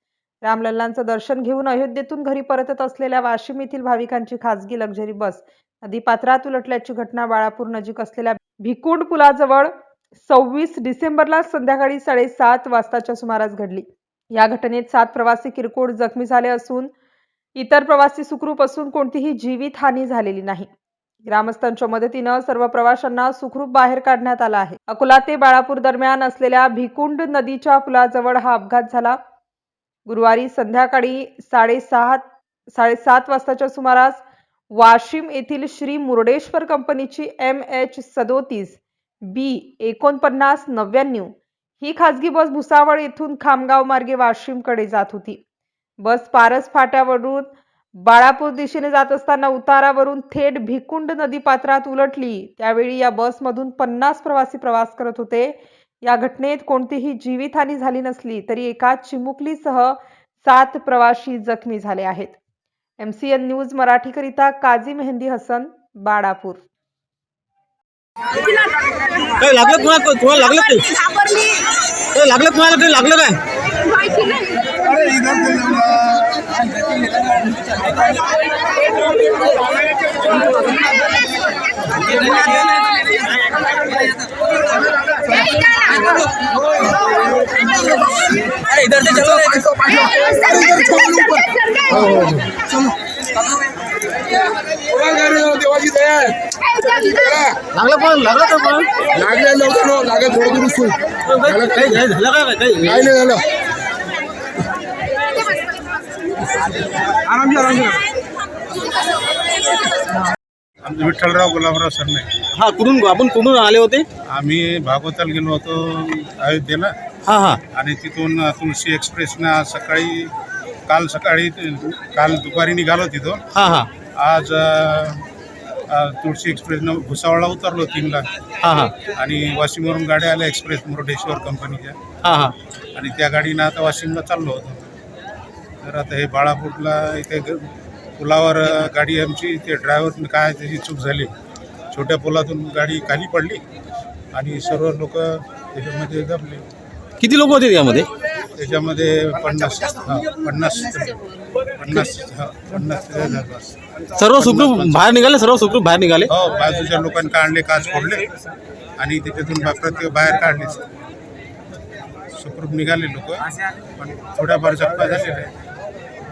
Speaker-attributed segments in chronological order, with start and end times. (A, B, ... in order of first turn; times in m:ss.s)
0:00.4-0:16.9 A
0:17.5-0:20.7 A
0:21.3-0:29.2 A
0:30.0-0:45.4 A
0:46.0-1:02.4 A
1:03.0-1:06.6 A
1:09.4-1:11.6 B
1:12.1-1:13.4 B
1:15.2-1:15.7 C
1:22.3-1:22.6 B
1:28.7-1:30.1 B
1:30.2-1:31.4 C
1:31.9-1:32.5 B
1:34.9-1:36.4 C
1:37.1-1:37.5 C
1:37.7-1:39.0 B
1:39.2-1:41.0 C
1:41.2-1:43.4 B
1:50.8-1:52.4 D
1:52.5-1:54.0 B
1:54.2-1:56.9 D
1:57.3-1:57.6 B
1:57.7-2:00.3 D
2:00.9-2:03.5 D
2:03.5-2:03.9 B
2:04.1-2:05.2 D
2:05.9-2:08.3 D
2:08.6-2:08.9 B
2:09.0-2:12.0 D
2:12.2-2:12.5 B
2:12.9-2:14.9 D
2:15.8-2:21.3 D
2:21.9-2:23.6 D
2:24.3-2:26.7 D
2:27.2-2:28.1 B
2:28.5-2:33.7 D
2:34.2-2:36.3 B
2:34.4-2:35.1 D
2:36.3-2:38.3 D
2:39.0-2:40.8 D
2:42.3-2:45.5 D